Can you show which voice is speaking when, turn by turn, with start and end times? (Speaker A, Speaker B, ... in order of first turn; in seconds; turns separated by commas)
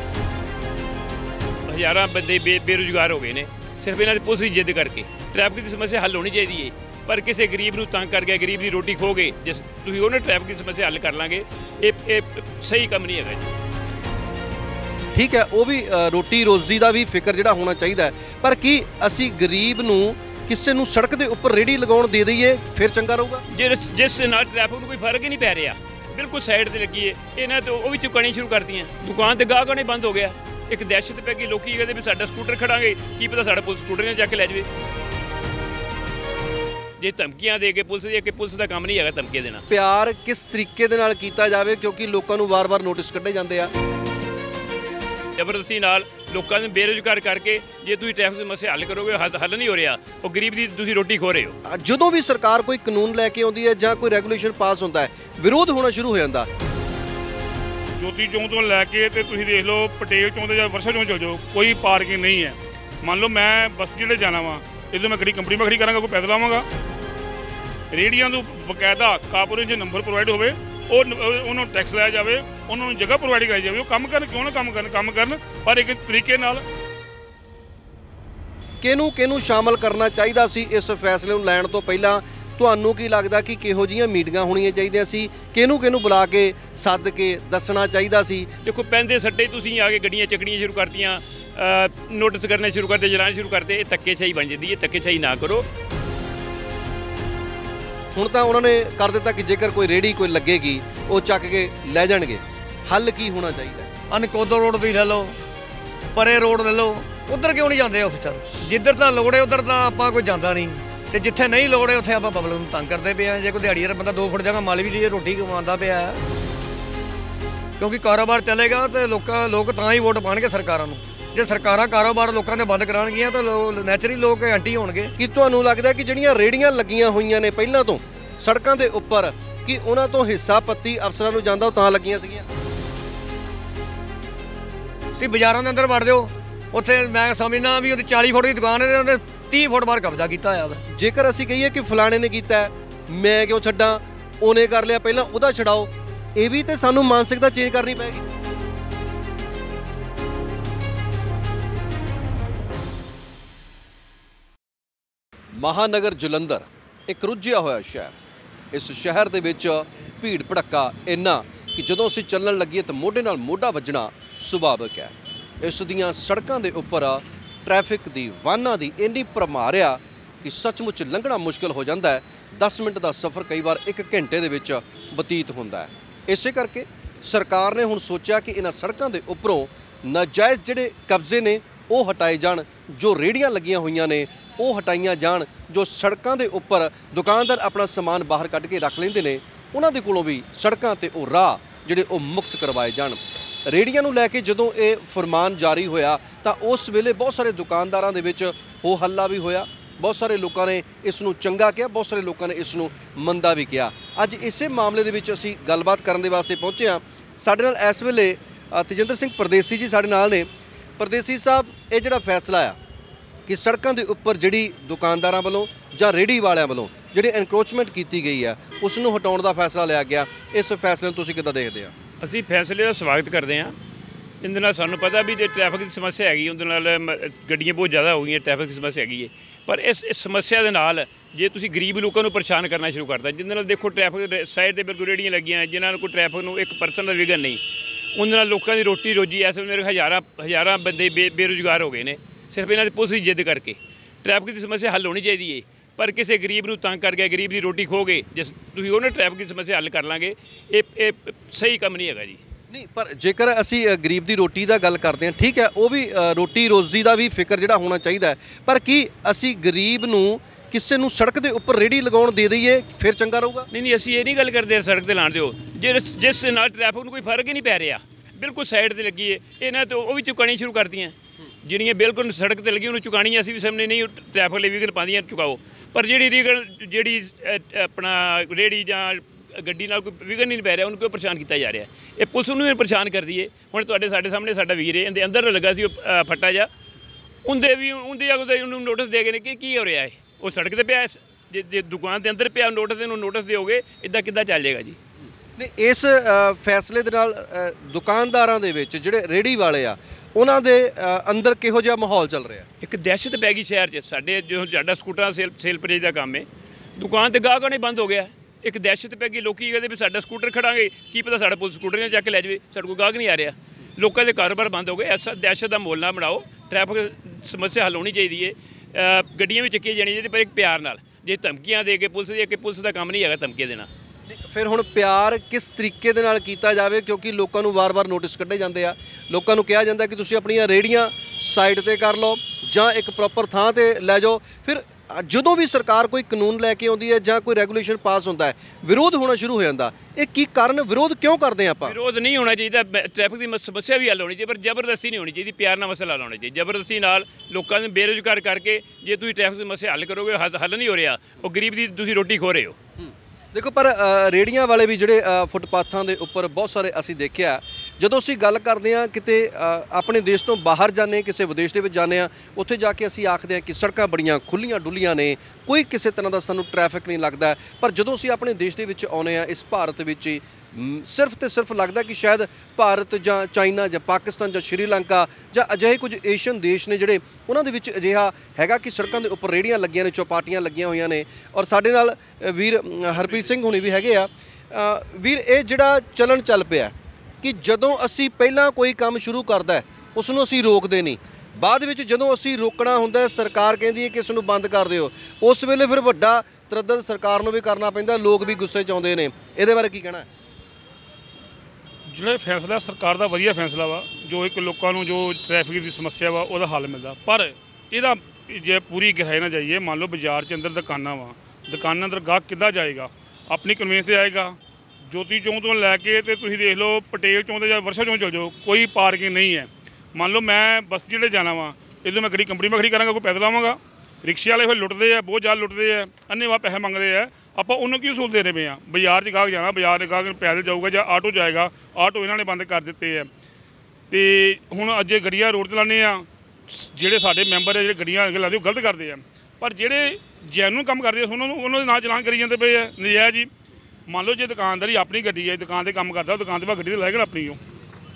Speaker A: 1.7-13.4, Speaker B: 15.1-23.4, Speaker A: 23.5-34.7, Speaker A: 37.0-39.6, Speaker B: 39.7-43.7, Speaker A: 45.4-51.5, Speaker B: 51.6-56.5, Speaker C: 58.0-66.7, Speaker C: 67.9-76.6, Speaker B: 78.8-88.5, Speaker A: 88.6-95.7, Speaker B: 98.1-103.9, Speaker D: 104.1-105.3, Speaker D: 106.1-116.2, Speaker D: 117.8-125.1, Speaker B: 125.2-132.4, Speaker D: 135.2-140.8, Speaker B: 141.0-148.2, Speaker B: 155.6-158.1, Speaker B: 158.7-212.8, Speaker B: 213.5-221.9, Speaker A: 222.2-223.7, Speaker A: 224.4-237.6, Speaker A: 238.1-252.4, Speaker B: 252.7-263.7, Speaker A: 263.7-286.7, Speaker A: 287.4-295.0, Speaker B: 295.6-302.7, Speaker A: 302.8-306.4, Speaker A: 307.0-323.9, Speaker B: 324.3-341.9, Speaker A: 341.8-352.8, Speaker B: 353.0-400.3, Speaker C: 402.1-414.6, Speaker C: 415.1-433.3, Speaker C: 434.1-443.5, Speaker C: 444.1-447.6